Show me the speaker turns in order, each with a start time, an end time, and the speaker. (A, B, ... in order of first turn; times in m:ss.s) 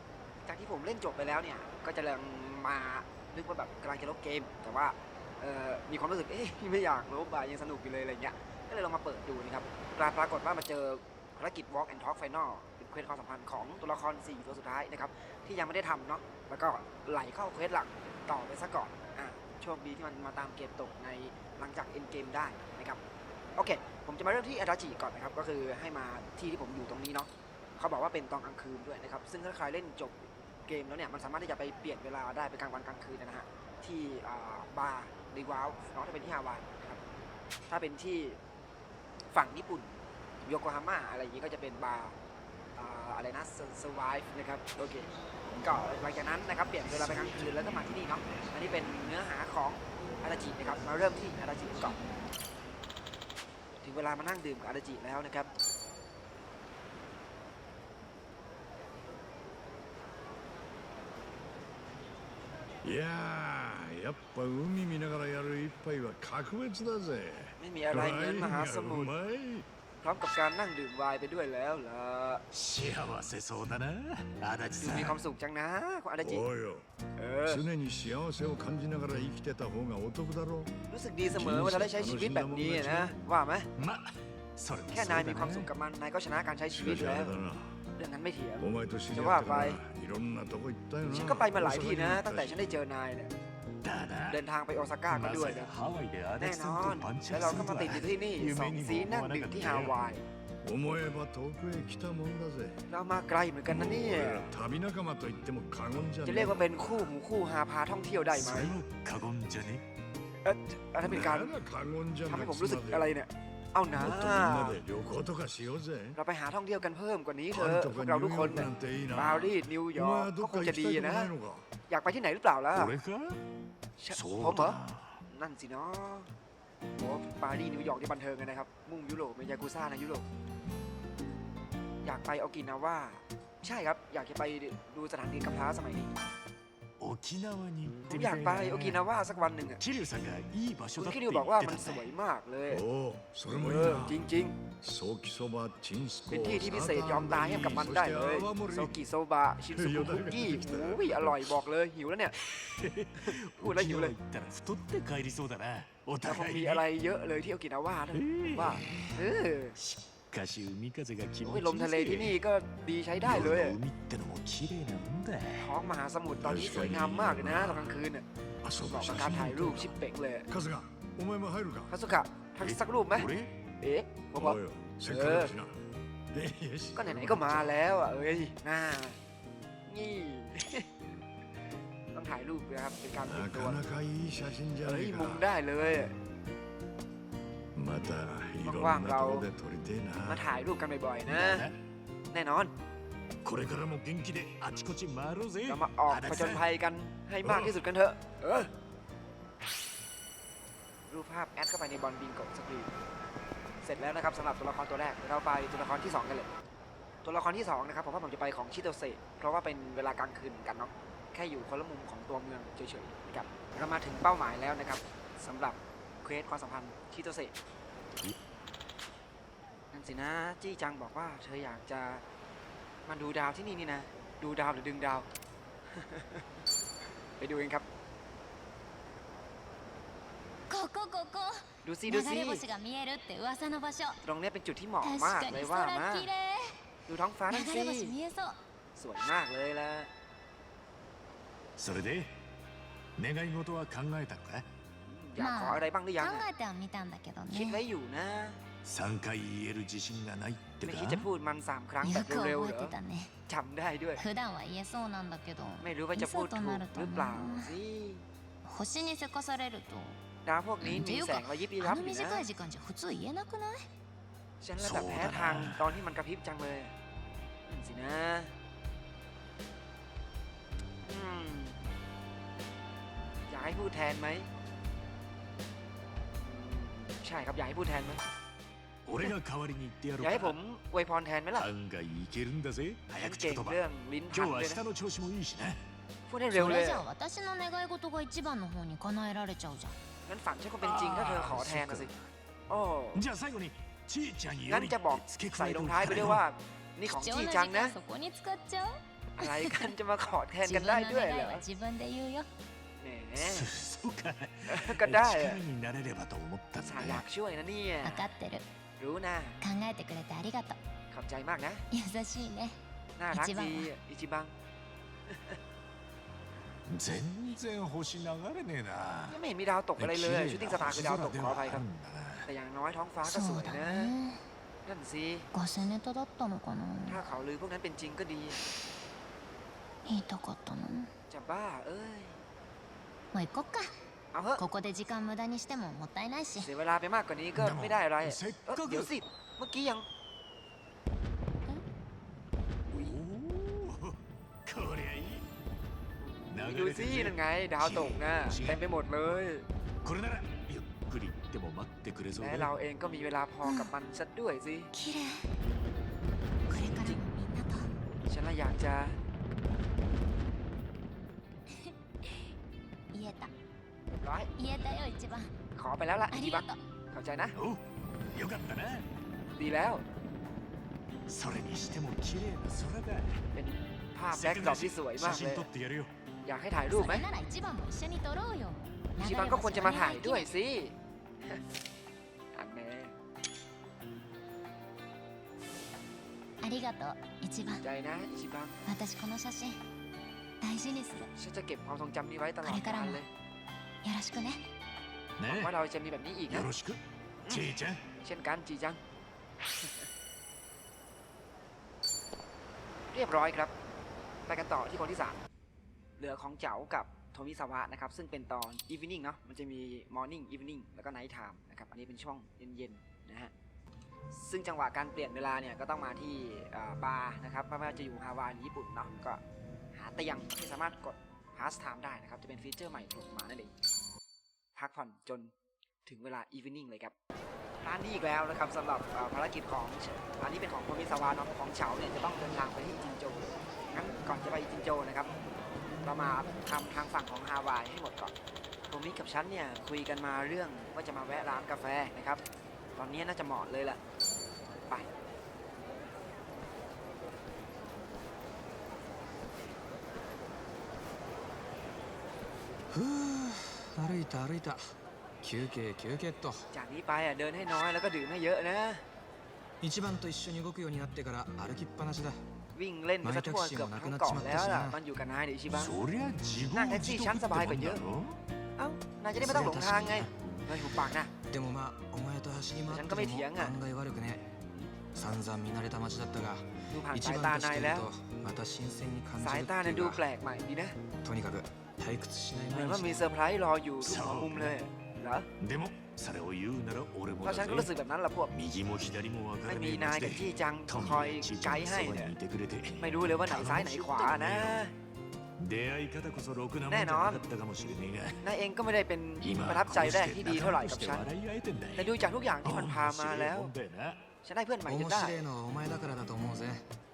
0:00.4-0:23.0 A
0:23.6-0:37.0 A
0:37.7-0:38.4 A
0:39.3-0:42.2 A
0:42.8-0:52.0 A
0:53.8-0:55.5 A
1:02.8-1:09.7 B
1:07.6-1:09.1 A
1:10.0-1:12.4 A
1:12.5-1:15.2 C
1:14.8-1:16.5 A
1:16.2-1:16.8 B
1:17.2-1:17.6 A
1:17.5-1:20.7 B
1:20.9-1:23.7 A
1:21.3-1:23.2 B
1:23.8-1:25.7 C
1:24.9-1:27.4 A
1:26.7-1:27.7 B
1:28.0-1:29.8 A
1:28.6-1:32.6 B
1:31.1-1:33.3 A
1:33.8-1:34.4 C
1:34.3-1:35.7 A
1:35.1-1:40.0 C
1:36.4-1:40.2 A
1:40.6-1:42.8 B
1:42.9-1:44.5 A
1:43.7-1:47.1 B
1:46.2-1:48.8 A
1:48.3-1:49.8 C
1:50.4-1:51.6 A
1:51.0-1:53.1 B
1:52.2-1:54.8 A
1:53.9-1:56.2 B
1:56.1-2:01.3 A
1:57.5-2:01.6 B
2:01.9-2:02.9 A
2:02.8-2:03.4 C
2:04.0-2:06.3 A
2:04.1-2:05.2 C
2:07.0-2:10.2 A
2:12.0-2:16.1 A
2:17.0-2:19.0 C
2:18.1-2:19.8 A
2:19.8-2:22.1 C
2:21.0-2:22.8 A
2:22.7-2:24.2 B
2:23.5-2:24.6 A
2:24.8-2:29.0 B
2:26.3-2:32.4 A
2:29.7-2:31.4 B
2:32.4-2:36.8 C
2:33.2-2:34.1 A
2:36.2-2:39.8 A
2:38.1-2:39.2 C
2:39.7-2:42.4 C
2:41.4-2:43.8 A
2:43.2-2:45.7 C
2:45.6-2:48.2 A
2:46.4-2:47.6 B
2:47.6-2:47.9 C
2:48.6-2:50.0 B
2:48.8-2:50.5 A
2:50.5-2:51.9 B
2:51.9-2:53.3 A
2:52.6-2:53.5 C
2:53.8-2:55.5 A
2:54.4-2:55.8 B
2:56.3-2:57.7 B
2:56.9-2:59.2 A
2:59.8-3:00.8 A
3:02.1-3:03.8 A
3:03.2-3:05.4 B
3:04.8-3:06.1 A
3:07.7-3:10.4 B
3:08.6-3:09.4 A
3:10.2-3:11.7 A
3:11.3-3:11.8 C
3:12.3-3:12.7 A
3:13.4-3:16.6 C
3:15.6-3:18.7 A
3:17.5-3:17.7 C
3:21.1-3:22.9 A
3:23.8-3:26.5 A
3:27.2-3:37.5 A
3:39.9-3:42.2 A
3:43.0-3:45.3 A
3:45.9-3:46.4 A
3:47.4-3:47.8 A
3:50.7-3:54.2 D
3:51.8-3:52.6 A
3:54.2-3:56.3 A
3:55.0-3:56.8 D
3:57.1-3:58.1 A
3:57.5-3:58.6 D
3:58.9-4:00.1 A
4:01.8-4:02.3 C
4:03.2-4:04.6 C
4:05.0-4:06.4 A
4:05.4-4:07.8 D
4:07.5-4:08.6 A
4:08.8-4:11.3 C
4:10.8-4:12.9 A
4:12.0-4:13.3 D
4:13.5-4:14.2 A
4:14.2-4:17.7 D
4:15.8-4:18.2 A
4:18.6-4:20.2 D
4:20.4-4:22.4 A
4:20.8-4:23.8 D
4:24.6-4:26.9 A
4:24.8-4:26.1 C
4:27.7-4:28.5 A
4:31.0-4:31.8 A
4:33.5-4:34.5 A
4:36.4-4:38.2 A
4:39.0-4:40.5 C
4:40.2-4:41.7 A
4:41.6-4:43.8 C
4:43.2-4:44.8 A
4:44.3-4:45.8 C
4:46.3-4:47.0 A
4:46.5-4:50.0 D
4:50.2-4:52.1 A
4:50.8-4:52.1 C
4:52.7-4:53.2 A
4:53.1-4:56.4 C
4:54.7-4:58.0 A
4:57.0-4:59.9 D
4:59.4-5:01.6 A
5:00.6-5:02.5 D
5:03.0-5:03.7 A
5:03.4-5:07.2 C
5:04.7-5:05.6 A
5:06.8-5:08.2 A
5:08.0-5:08.6 D
5:09.0-5:09.6 A
5:09.6-5:10.8 D
5:11.1-5:11.8 A
5:11.9-5:12.8 D
5:13.2-5:14.5 A
5:13.3-5:14.0 D
5:15.3-5:15.6 A
5:16.9-5:19.4 C
5:19.3-5:21.8 A
5:20.0-5:22.5 C
5:22.5-5:24.1 A
5:23.2-5:24.4 D
5:24.8-5:25.5 A
5:25.5-5:27.2 D
5:27.1-5:28.6 A
5:30.0-5:31.1 D
5:31.3-5:32.4 A
5:33.3-5:33.9 D
5:34.3-5:34.6 A
5:34.6-5:36.7 D
5:36.6-5:40.0 A
5:37.6-5:39.1 C
5:42.9-5:45.4 C
5:46.2-5:49.6 A
5:46.5-5:48.8 C
5:50.0-5:52.7 C
5:52.3-5:54.9 A
5:53.6-5:53.9 D
5:54.9-5:55.4 D
5:56.7-5:57.9 D
5:56.7-5:57.2 A
5:58.3-5:59.2 A
6:01.7-6:02.4 D
6:03.1-6:03.5 D
6:04.2-6:04.5 A
6:04.6-6:05.5 D
6:05.7-6:07.6 A
6:06.3-6:06.8 D
6:07.5-6:07.8 C
6:08.3-6:09.1 C
6:09.5-6:10.0 A
6:11.3-6:13.4 C
6:13.5-6:15.7 A
6:14.3-6:16.1 C
6:16.4-6:17.2 A
6:16.9-6:20.5 D
6:19.2-6:21.6 A
6:22.5-6:23.1 A
6:26.6-6:27.8 D
6:27.8-6:28.8 A
6:28.8-6:29.8 D
6:30.6-6:31.3 D
6:31.4-6:33.3 A
6:32.6-6:33.2 D
6:34.0-6:34.6 D
6:35.4-6:35.7 C
6:35.4-6:36.7 A
6:36.5-6:38.0 C
6:37.4-6:39.0 A
6:43.1-6:43.7 A
6:44.5-6:45.4 A
6:46.2-6:53.5 A
6:54.3-6:59.4 A
6:59.9-7:03.7 A
7:04.8-7:05.5 A
7:06.0-7:07.1 A
7:07.8-7:15.3 A
7:16.0-7:18.3 A
7:18.9-7:22.4 A
7:23.0-7:24.0 A
7:32.9-7:34.9 E
7:35.4-7:36.7 E
7:36.7-7:39.0 A
7:39.8-7:42.4 E
7:42.7-7:46.0 A
7:43.2-7:45.0 E
7:45.7-7:48.4 C
7:46.7-7:48.0 A
7:48.8-7:51.3 A
7:49.4-7:50.3 E
7:51.5-7:54.5 E
7:52.9-7:53.7 A
7:55.1-8:00.2 E
7:56.9-7:58.1 A
7:59.4-8:01.0 A
8:01.2-8:03.2 E
8:02.7-8:05.5 A
8:04.0-8:04.7 C
8:05.6-8:07.9 C
8:07.4-8:08.5 A
8:08.5-8:14.8 C
8:09.6-8:12.4 A
8:13.0-8:14.9 A
8:15.6-8:18.4 C
8:16.9-8:17.4 A
8:18.4-8:21.2 A
8:19.4-8:24.2 C
8:22.0-8:23.7 A
8:24.4-8:25.4 A
8:24.8-8:26.8 E